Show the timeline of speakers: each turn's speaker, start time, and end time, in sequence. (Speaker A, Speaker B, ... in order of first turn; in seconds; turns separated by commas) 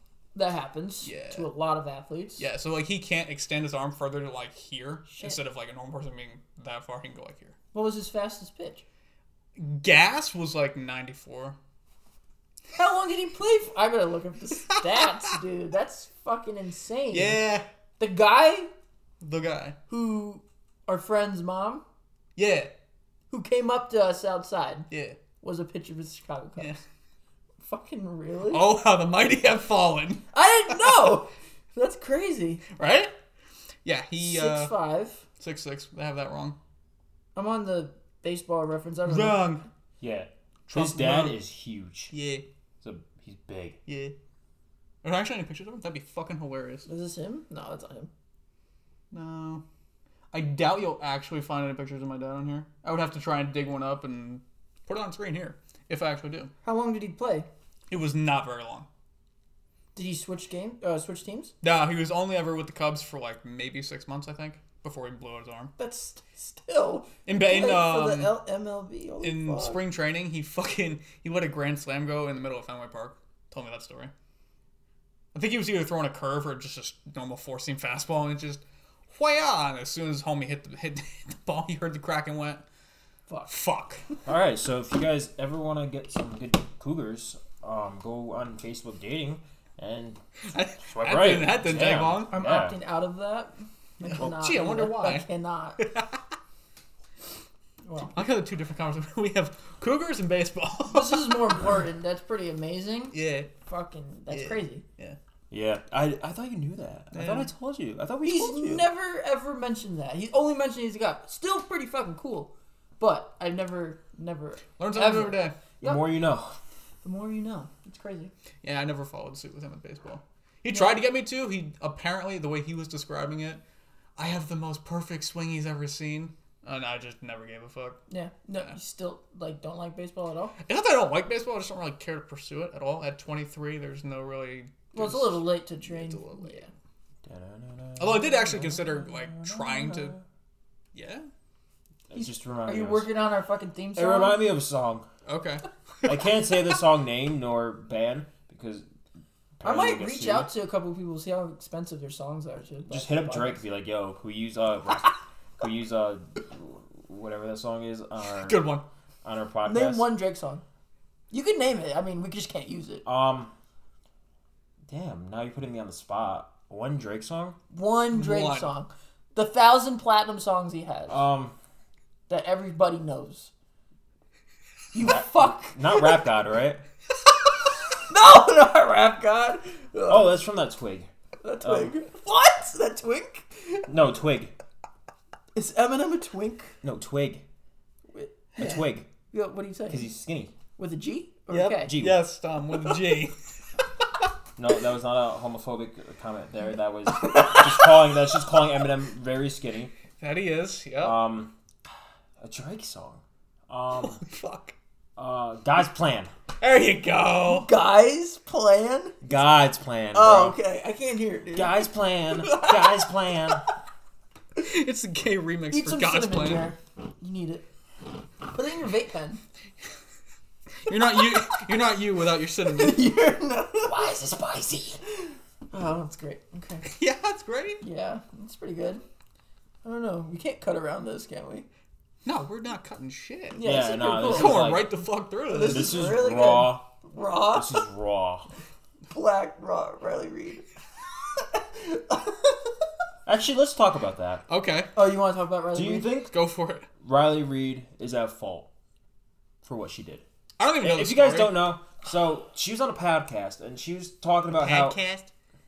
Speaker A: 0.3-2.4, Speaker B: 1.1-1.5, Speaker B: 2.4-7.5, Speaker A: 5.1-5.4, Speaker A: 7.7-8.8, Speaker B: 9.6-11.6, Speaker A: 12.8-17.4, Speaker B: 14.7-15.0, Speaker B: 17.1-17.6, Speaker A: 18.0-18.7, Speaker B: 19.2-19.8, Speaker A: 19.9-21.8, Speaker B: 22.4-22.7, Speaker A: 23.3-24.9, Speaker B: 24.9-25.2, Speaker A: 25.4-26.8, Speaker A: 27.6-28.6, Speaker B: 28.5-30.2, Speaker A: 30.3-32.6, Speaker B: 32.7-33.1, Speaker B: 33.9-34.8, Speaker A: 34.2-35.2, Speaker B: 35.4-36.6, Speaker A: 37.4-39.5, Speaker B: 39.1-39.6, Speaker C: 40.0-42.1, Speaker B: 40.7-41.4, Speaker B: 42.1-42.5, Speaker C: 42.8-43.8, Speaker B: 43.9-44.1, Speaker B: 45.0-46.9, Speaker A: 46.9-48.1, Speaker B: 49.1-49.6, Speaker B: 50.3-56.5, Speaker A: 56.6-57.5, Speaker B: 57.9-58.9, Speaker A: 60.0-61.5, Speaker B: 61.6-65.7, Speaker A: 65.8-69.8, Speaker B: 67.3-68.3, Speaker B: 69.2-74.1, Speaker B: 75.3-82.6, Speaker B: 83.5-84.0, Speaker C: 84.3-90.2, Speaker B: 90.5-92.4, Speaker C: 90.9-92.8, Speaker A: 91.8-95.8, Speaker B: 94.0-96.2, Speaker A: 97.9-98.2, Speaker B: 98.2-101.6, Speaker A: 100.9-104.8, Speaker B: 103.1-103.5, Speaker B: 104.3-105.2, Speaker C: 105.5-108.9, Speaker B: 107.1-107.5, Speaker A: 108.2-116.1, Speaker B: 114.8-115.6, Speaker C: 115.8-116.6, Speaker A: 117.0-118.3, Speaker B: 118.6-123.6, Speaker A: 120.7-121.0, Speaker B: 124.2-128.0, Speaker A: 128.1-130.5, Speaker B: 130.6-136.7, Speaker A: 134.9-136.7, Speaker C: 137.3-140.2, Speaker B: 138.0-140.2, Speaker B: 140.9-141.3, Speaker C: 142.1-143.1, Speaker A: 142.1-144.5, Speaker C: 144.0-145.1, Speaker B: 145.3-145.7, Speaker C: 146.1-148.9, Speaker C: 149.6-150.5, Speaker A: 149.6-153.6, Speaker C: 152.9-158.7, Speaker B: 158.3-158.8, Speaker C: 159.2-160.1, Speaker A: 159.7-160.6, Speaker A: 161.3-163.0, Speaker C: 163.1-163.5, Speaker C: 164.9-167.6, Speaker A: 167.7-171.2, Speaker B: 168.1-168.7, Speaker C: 171.1-171.6, Speaker A: 172.3-173.5, Speaker A: 174.9-176.2, Speaker C: 175.0-176.8, Speaker A: 178.1-180.3, Speaker C: 180.1-181.1, Speaker A: 181.4-183.9, Speaker C: 181.6-181.9, Speaker C: 183.9-184.5, Speaker A: 185.6-186.7, Speaker C: 186.8-187.4, Speaker A: 188.1-190.1, Speaker C: 188.6-189.1, Speaker C: 189.9-190.5, Speaker A: 190.8-192.0, Speaker B: 191.5-193.4, Speaker C: 191.9-192.3, Speaker C: 194.6-199.9, Speaker A: 197.2-197.9, Speaker B: 200.2-201.2, Speaker C: 201.0-201.5, Speaker C: 202.4-204.2, Speaker B: 204.0-204.7, Speaker C: 205.2-206.3, Speaker B: 206.6-207.7, Speaker A: 207.5-209.2, Speaker C: 209.2-210.6, Speaker A: 210.1-213.2, Speaker C: 211.5-213.6, Speaker B: 214.6-216.7, Speaker A: 215.7-217.6, Speaker A: 218.4-219.4, Speaker B: 220.8-223.1, Speaker A: 222.7-224.2, Speaker C: 223.8-225.0, Speaker A: 225.3-226.9, Speaker B: 226.8-227.8, Speaker A: 227.8-229.0, Speaker A: 229.8-231.7, Speaker B: 232.2-233.6, Speaker A: 233.5-234.6, Speaker C: 233.6-234.9, Speaker B: 234.2-236.1, Speaker A: 235.5-237.8, Speaker C: 235.7-236.9, Speaker C: 237.5-238.5, Speaker A: 239.1-240.7, Speaker A: 241.4-242.6, Speaker C: 243.3-244.4, Speaker B: 244.5-244.9, Speaker A: 244.9-246.1, Speaker C: 245.7-246.3, Speaker B: 246.3-246.9, Speaker C: 247.0-248.7, Speaker C: 249.6-250.2, Speaker B: 250.6-251.7, Speaker C: 250.8-255.0, Speaker B: 254.5-255.3